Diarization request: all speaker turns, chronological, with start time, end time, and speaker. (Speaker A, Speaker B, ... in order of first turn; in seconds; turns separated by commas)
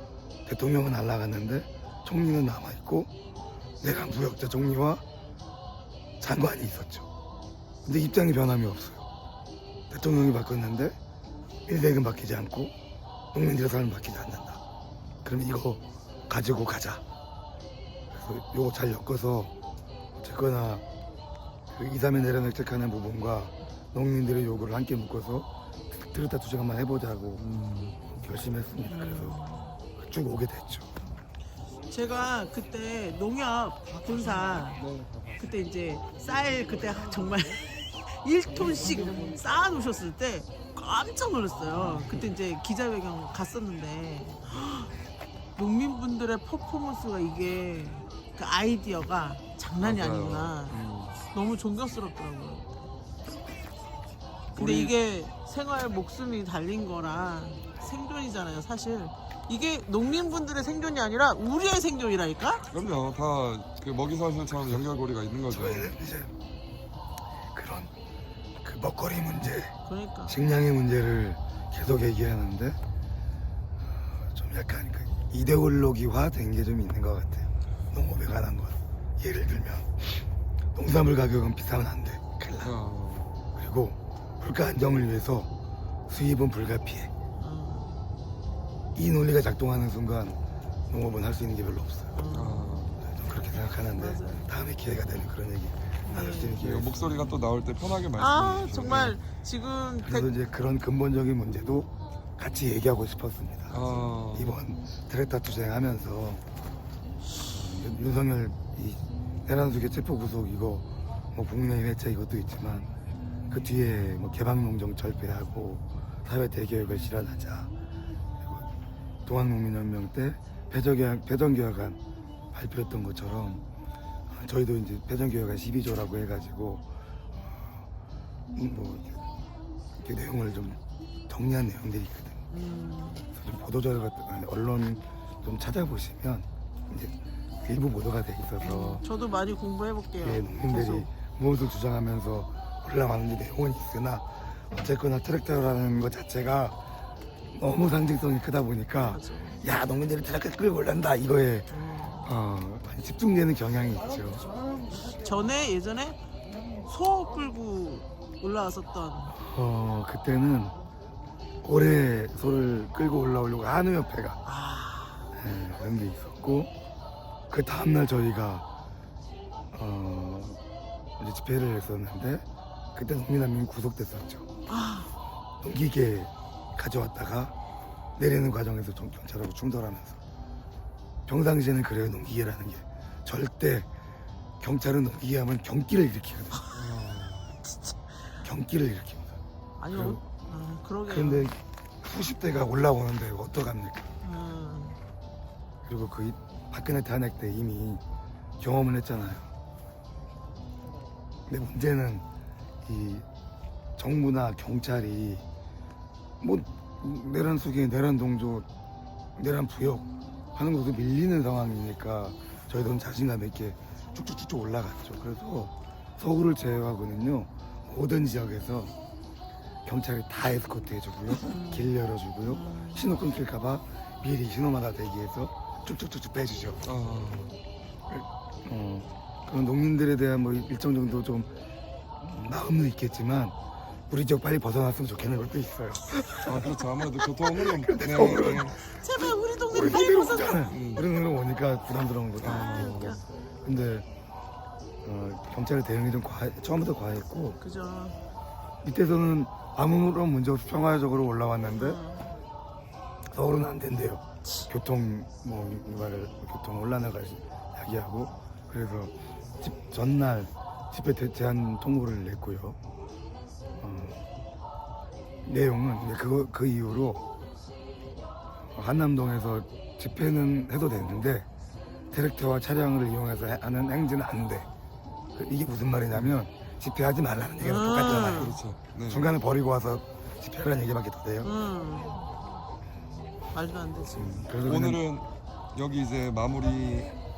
Speaker A: 0.5-3.1, Speaker A: 3.8-5.0, Speaker A: 6.2-7.1, Speaker A: 7.8-9.1, Speaker A: 9.9-10.9, Speaker A: 11.7-12.7, Speaker A: 13.3-14.6, Speaker A: 15.2-17.0, Speaker A: 18.1-19.5, Speaker A: 20.2-20.8, Speaker A: 21.7-27.4, Speaker B: 27.4-28.1, Speaker A: 28.1-29.4, Speaker C: 28.9-29.8, Speaker A: 29.9-30.9, Speaker C: 31.9-34.9, Speaker B: 34.8-35.2, Speaker C: 35.4-44.9, Speaker C: 45.5-52.7, Speaker B: 49.8-51.2, Speaker C: 54.5-62.7, Speaker B: 54.5-54.9, Speaker B: 62.7-65.9, Speaker A: 65.5-66.3, Speaker A: 67.5-67.9, Speaker A: 68.6-69.8, Speaker C: 69.8-70.3, Speaker A: 70.3-72.8, Speaker A: 74.0-82.7, Speaker B: 82.6-83.3, Speaker A: 83.5-85.5, Speaker A: 86.1-87.1, Speaker C: 87.3-88.0, Speaker A: 88.9-90.4, Speaker A: 90.9-92.2, Speaker C: 92.1-92.8, Speaker B: 92.3-93.0, Speaker A: 93.0-96.9, Speaker C: 93.9-94.5, Speaker C: 96.0-96.6, Speaker B: 96.6-99.2, Speaker C: 98.2-100.3, Speaker A: 100.0-106.4, Speaker B: 103.7-104.5, Speaker A: 107.5-112.9, Speaker A: 113.5-117.7, Speaker A: 118.4-118.7, Speaker A: 119.2-122.0, Speaker A: 122.5-123.6, Speaker A: 124.3-126.8, Speaker A: 128.5-129.2, Speaker A: 129.9-132.4, Speaker C: 132.5-133.3, Speaker A: 133.3-139.0, Speaker C: 138.6-141.1, Speaker A: 140.2-146.8, Speaker A: 147.5-151.7, Speaker C: 149.0-149.6, Speaker C: 151.7-152.3, Speaker A: 152.2-154.5, Speaker C: 155.0-156.2, Speaker C: 156.8-159.3, Speaker A: 159.3-160.8, Speaker A: 161.6-164.4, Speaker C: 164.4-165.3, Speaker A: 165.3-166.7, Speaker A: 167.5-168.7, Speaker A: 169.7-170.6, Speaker A: 171.2-172.4, Speaker A: 172.9-174.5, Speaker C: 174.7-175.1, Speaker A: 175.6-177.5, Speaker A: 178.2-180.2, Speaker A: 181.3-183.9, Speaker A: 184.6-186.7, Speaker B: 186.7-187.5, Speaker A: 188.4-189.4, Speaker C: 189.8-191.5, Speaker A: 189.9-190.2, Speaker A: 191.1-194.1, Speaker C: 194.2-195.0, Speaker A: 195.8-198.0, Speaker A: 198.6-199.5, Speaker A: 201.5-202.2, Speaker A: 202.8-203.2, Speaker A: 204.0-205.4, Speaker A: 206.4-208.7, Speaker A: 209.3-218.9, Speaker A: 219.8-226.8, Speaker C: 221.4-221.9, Speaker C: 222.4-223.1, Speaker B: 226.8-227.6, Speaker A: 228.1-231.5, Speaker A: 232.2-233.6, Speaker A: 234.1-236.7, Speaker B: 236.4-238.8, Speaker A: 237.6-239.0, Speaker C: 238.3-241.1, Speaker A: 239.7-243.1, Speaker B: 240.7-241.0, Speaker B: 242.4-243.2, Speaker C: 242.4-243.2, Speaker A: 243.6-244.1, Speaker A: 245.0-247.6, Speaker C: 247.6-248.2, Speaker A: 248.8-252.0, Speaker C: 251.8-252.3, Speaker A: 253.3-262.8, Speaker A: 263.8-264.2, Speaker A: 265.4-267.2, Speaker A: 268.7-271.5, Speaker A: 272.1-274.7, Speaker A: 275.3-278.6, Speaker C: 277.6-278.6, Speaker B: 278.1-279.3, Speaker A: 279.1-281.5, Speaker C: 281.4-282.3, Speaker C: 283.5-284.4, Speaker A: 284.1-285.0, Speaker B: 284.6-287.2